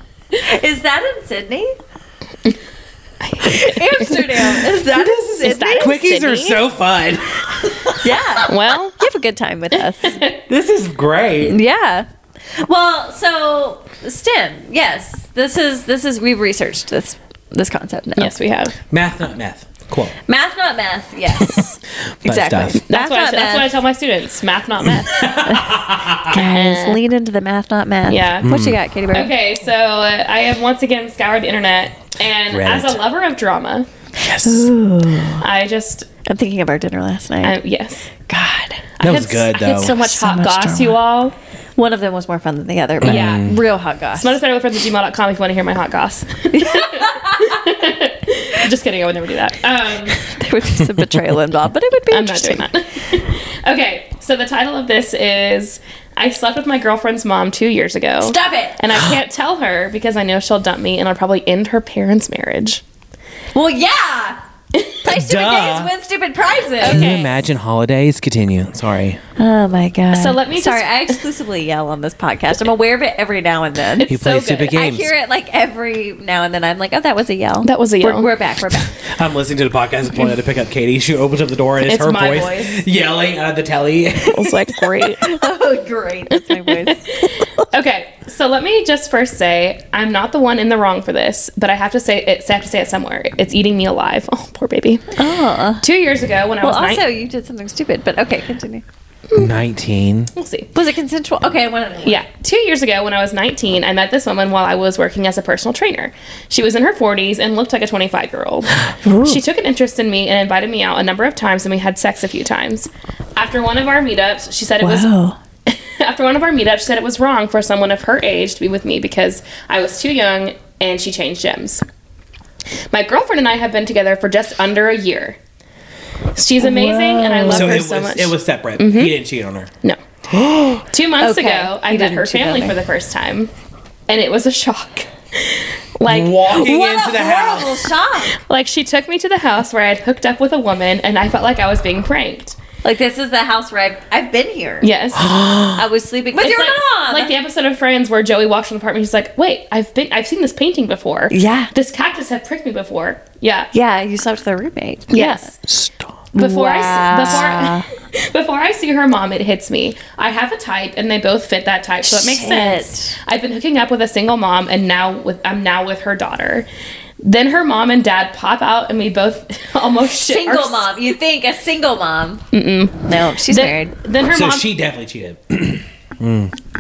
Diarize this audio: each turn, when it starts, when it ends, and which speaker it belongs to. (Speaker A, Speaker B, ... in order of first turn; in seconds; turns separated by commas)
Speaker A: 0.4-1.8, Speaker B: 3.2-4.7, Speaker A: 3.4-6.0, Speaker C: 5.0-8.2, Speaker B: 5.4-6.6, Speaker A: 8.0-10.2, Speaker B: 8.4-9.0, Speaker B: 10.0-10.3, Speaker C: 10.5-11.6, Speaker A: 11.4-18.4, Speaker B: 18.2-18.7, Speaker C: 18.9-20.1, Speaker A: 20.3-23.8, Speaker C: 21.4-21.6, Speaker C: 22.2-22.8, Speaker B: 22.9-25.5, Speaker C: 25.1-26.4, Speaker A: 26.2-29.3, Speaker B: 26.3-27.0, Speaker B: 28.1-28.5, Speaker C: 28.4-28.8, Speaker B: 29.1-33.9, Speaker C: 32.5-33.0, Speaker C: 34.2-34.7, Speaker A: 34.3-35.5, Speaker B: 35.4-36.1, Speaker A: 36.3-37.6, Speaker B: 37.4-38.1, Speaker A: 38.3-38.9, Speaker B: 39.0-41.3, Speaker C: 39.0-40.0, Speaker A: 39.8-41.0, Speaker A: 41.8-44.4, Speaker C: 43.0-43.5, Speaker B: 43.0-43.6, Speaker B: 44.2-50.2, Speaker A: 46.5-47.6, Speaker A: 50.2-52.6, Speaker C: 50.8-51.2, Speaker B: 52.1-62.8, Speaker A: 58.2-58.8, Speaker A: 63.5-64.4, Speaker A: 65.0-67.2, Speaker C: 65.0-65.9, Speaker B: 66.8-67.4, Speaker C: 66.8-69.2, Speaker A: 69.4-78.9, Speaker B: 70.1-71.3, Speaker B: 74.0-74.8, Speaker C: 74.1-75.1, Speaker B: 77.6-78.8, Speaker C: 79.1-84.6, Speaker B: 81.8-82.8, Speaker B: 84.2-85.4, Speaker A: 85.2-87.7, Speaker B: 86.5-95.1, Speaker A: 95.2-95.9, Speaker B: 95.8-97.0, Speaker A: 96.6-98.8, Speaker C: 99.3-100.3, Speaker B: 100.4-100.7, Speaker A: 100.7-102.2, Speaker B: 102.0-115.1, Speaker A: 109.0-109.4, Speaker A: 114.8-115.4, Speaker B: 115.7-121.8, Speaker B: 122.9-125.4, Speaker B: 126.3-129.1, Speaker A: 126.6-127.8, Speaker C: 127.5-129.7, Speaker C: 130.3-130.8, Speaker B: 130.8-133.5, Speaker A: 131.2-132.8, Speaker B: 134.1-136.7, Speaker C: 136.1-137.9, Speaker A: 136.5-138.4, Speaker B: 138.3-142.6, Speaker A: 142.8-144.9, Speaker B: 144.8-145.3, Speaker C: 145.2-145.8, Speaker A: 145.7-147.3, Speaker B: 146.3-153.7, Speaker A: 151.3-151.7, Speaker A: 153.7-155.5, Speaker B: 155.1-155.6, Speaker C: 155.7-156.2, Speaker A: 156.3-157.9, Speaker B: 156.3-166.7, Speaker A: 162.0-163.2, Speaker B: 167.2-170.9, Speaker A: 170.1-172.4, Speaker B: 172.5-174.7, Speaker A: 173.1-173.9, Speaker C: 174.3-176.5